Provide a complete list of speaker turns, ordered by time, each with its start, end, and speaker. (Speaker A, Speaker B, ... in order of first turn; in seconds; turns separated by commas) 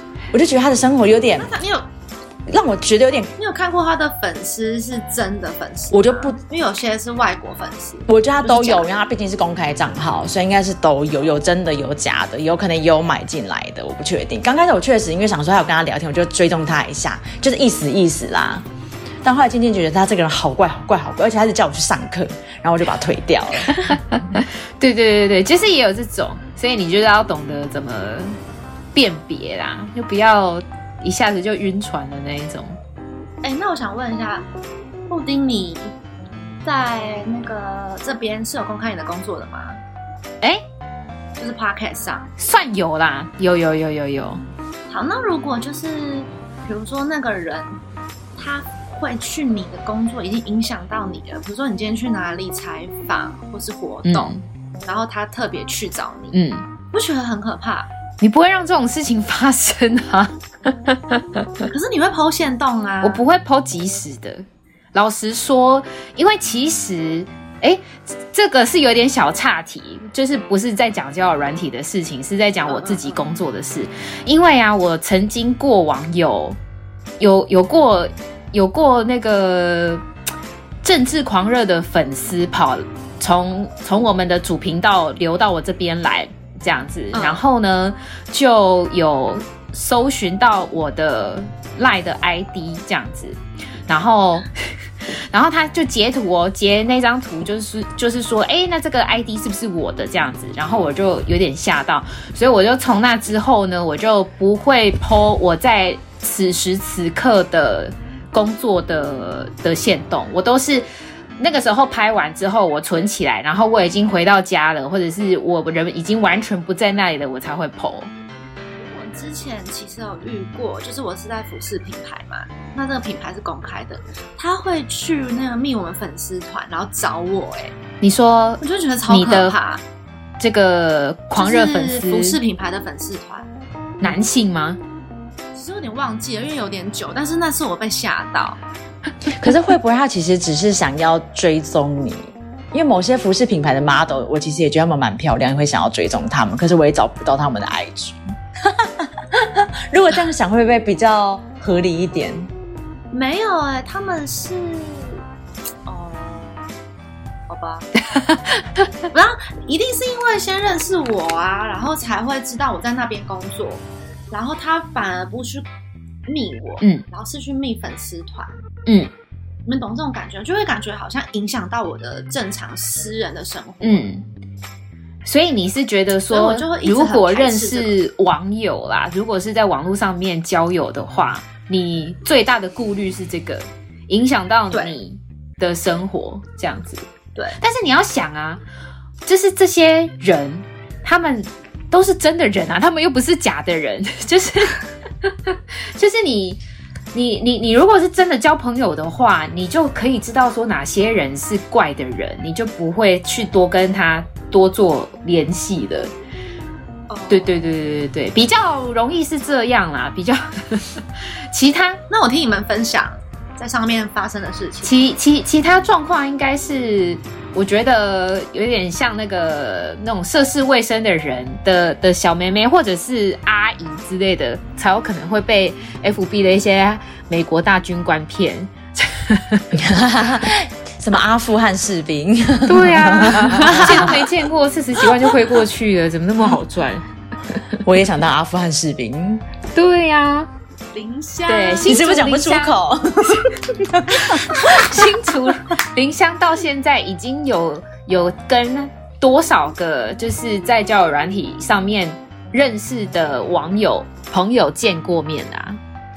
Speaker A: 0.3-1.5, Speaker B: 1.4-1.8, Speaker A: 2.5-3.3, Speaker B: 3.4-8.9, Speaker A: 5.9-6.4, Speaker A: 8.1-18.6, Speaker A: 19.2-24.0, Speaker C: 23.8-28.4, Speaker C: 28.9-32.8, Speaker B: 33.4-34.5, Speaker B: 35.1-35.9, Speaker B: 36.6-39.8, Speaker B: 41.4-42.3, Speaker C: 42.4-44.4, Speaker B: 44.9-47.8, Speaker B: 48.4-56.4, Speaker C: 54.0-54.4, Speaker C: 56.3-56.6, Speaker B: 56.9-57.9, Speaker C: 58.2-61.6, Speaker B: 61.7-63.2, Speaker C: 63.0-76.6, Speaker B: 72.7-73.2, Speaker C: 77.2-80.0, Speaker C: 80.8-94.5, Speaker B: 87.1-87.4, Speaker C: 95.3-110.8, Speaker C: 111.4-118.1, Speaker B: 118.8-127.8, Speaker C: 128.0-129.5, Speaker B: 128.6-129.8, Speaker C: 130.4-132.4, Speaker B: 131.3-133.5, Speaker C: 134.0-134.8, Speaker B: 135.5-138.6, Speaker A: 139.3-152.5, Speaker B: 153.1-155.2, Speaker B: 155.8-156.7, Speaker B: 157.5-157.9, Speaker C: 158.1-158.8, Speaker B: 159.1-165.7, Speaker B: 166.3-168.5, Speaker B: 169.7-174.1, Speaker C: 173.8-174.2, Speaker C: 175.2-187.1, Speaker B: 176.3-177.9, Speaker C: 187.6-188.6, Speaker C: 189.2-196.6, Speaker C: 197.1-206.1, Speaker B: 207.1-207.6, Speaker C: 207.3-212.0, Speaker B: 212.1-215.0, Speaker C: 214.8-229.7, Speaker A: 229.7-234.3, Speaker C: 232.7-237.0, Speaker A: 237.8-239.4, Speaker C: 239.7-240.5, Speaker B: 240.9-242.0, Speaker C: 241.5-242.8, Speaker A: 241.8-245.1, Speaker C: 244.2-255.8